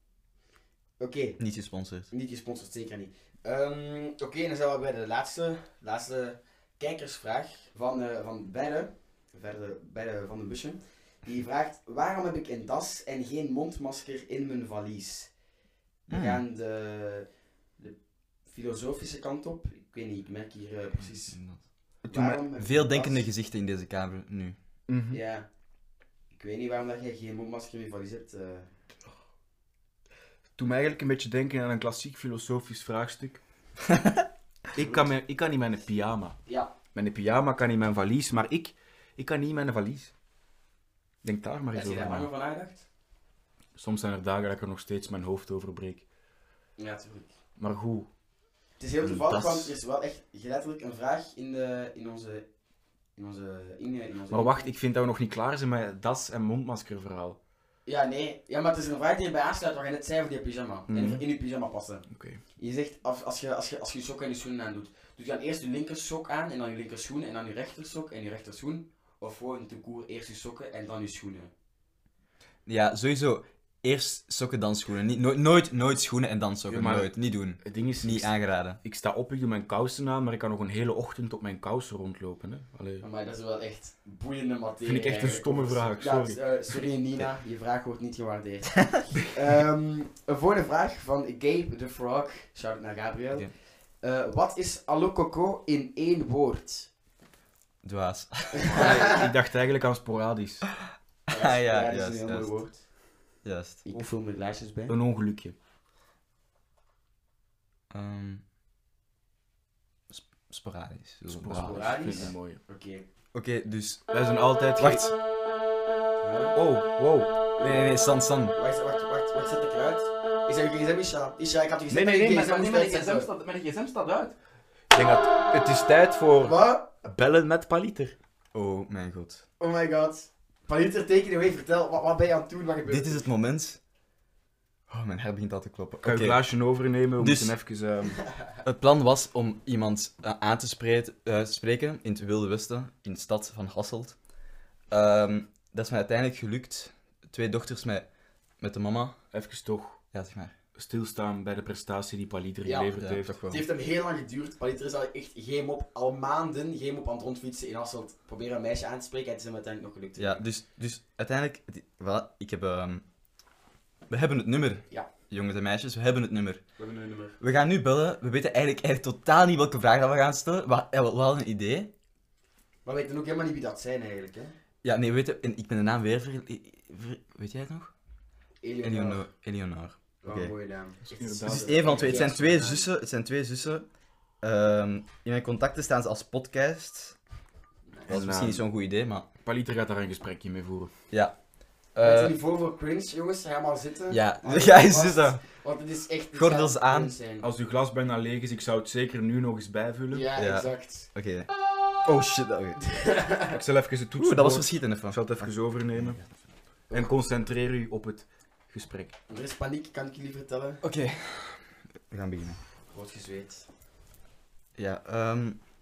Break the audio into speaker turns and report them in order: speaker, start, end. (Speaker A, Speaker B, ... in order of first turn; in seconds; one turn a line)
Speaker A: 1.0-1.4
Speaker B: 1.4-2.1
Speaker A: 2.1-15.3
Speaker A: 16.1-17.3
Speaker B: 16.1-16.4
Speaker A: 17.8-21.4
Speaker B: 21.3-21.6
Speaker C: 22.0-22.4
Speaker A: 22.1-23.3
Speaker B: 22.6-24.6
Speaker C: 24.9-25.2
Speaker A: 25.1-25.5
Speaker A: 26.3-28.7
Speaker C: 30.6-33.4
Speaker C: 34.7-36.4
Speaker A: 34.8-35.1
Speaker A: 36.5-36.7
Speaker C: 36.9-40.1
Speaker C: 41.2-42.3
Speaker A: 41.7-42.9
Speaker C: 43.8-46.0
Speaker A: 46.8-47.4
Speaker C: 47.6-48.1
Speaker A: 48.8-52.5
Speaker C: 49.0-49.7
Speaker A: 53.1-54.7
Speaker C: 54.3-57.4
Speaker A: 57.9-71.5
Speaker C: 60.9-61.2
Speaker C: 62.1-62.4
Speaker B: 72.7-78.8
Speaker C: 76.7-83.0
Speaker A: 83.0-96.9
Speaker C: 84.8-86.8
Speaker B: 97.8-98.7
Speaker C: 98.7-100.7
Speaker A: 101.3-102.9
Speaker B: 101.3-102.5
Speaker B: 103.4-103.8
Speaker A: 103.8-104.9
Speaker C: 104.9-105.5
Speaker B: 107.9-108.4
Speaker B: 110.1-112.3
Speaker C: 111.3-112.6
Speaker A: 111.5-113.0
Speaker B: 113.3-114.1
Speaker C: 114.1-115.1
Speaker B: 114.8-115.1
Speaker A: 116.2-116.5
Speaker C: 116.5-117.4
Speaker A: 117.6-123.3
Speaker B: 117.6-118.5
Speaker C: 121.9-124.3
Speaker C: 124.9-128.2
Speaker A: 126.4-126.9
Speaker B: 128.5-129.4
Speaker A: 129.6-133.3
Speaker B: 132.8-133.8
Speaker B: 134.9-136.4
Speaker C: 136.0-138.2
Speaker B: 137.2-137.5
Speaker B: 138.6-144.2
Speaker B: 144.9-149.2
Speaker C: 149.3-150.0
Speaker B: 150.1-150.5
Speaker C: 150.8-153.4
Speaker A: 152.6-152.9
Speaker B: 153.0-153.6
Speaker A: 153.5-160.4
Speaker B: 160.2-163.1
Speaker B: 164.1-166.6
Speaker A: 166.8-167.4
Speaker B: 167.4-171.9
Speaker A: 172.8-174.6
Speaker B: 174.8-177.9
Speaker A: 178.6-179.3
Speaker B: 178.8-180.5
Speaker A: 180.2-182.9
Speaker C: 181.2-182.3
Speaker B: 181.4-183.9
Speaker B: 184.4-187.2
Speaker A: 187.9-188.2
Speaker C: 188.1-188.7
Speaker B: 188.1-189.3
Speaker C: 189.4-190.9
Speaker B: 191.1-192.3
Speaker A: 192.0-197.5
Speaker B: 194.1-195.4
Speaker B: 196.3-197.2
Speaker C: 197.4-200.3
Speaker A: 200.1-201.1
Speaker B: 200.3-201.5
Speaker B: 202.0-202.8
Speaker A: 202.9-203.6
Speaker C: 203.5-206.2
Speaker B: 204.2-206.5
Speaker C: 206.9-209.1
Speaker A: 209.3-210.8
Speaker B: 210.8-212.6
Speaker A: 212.9-213.7
Speaker B: 214.8-215.6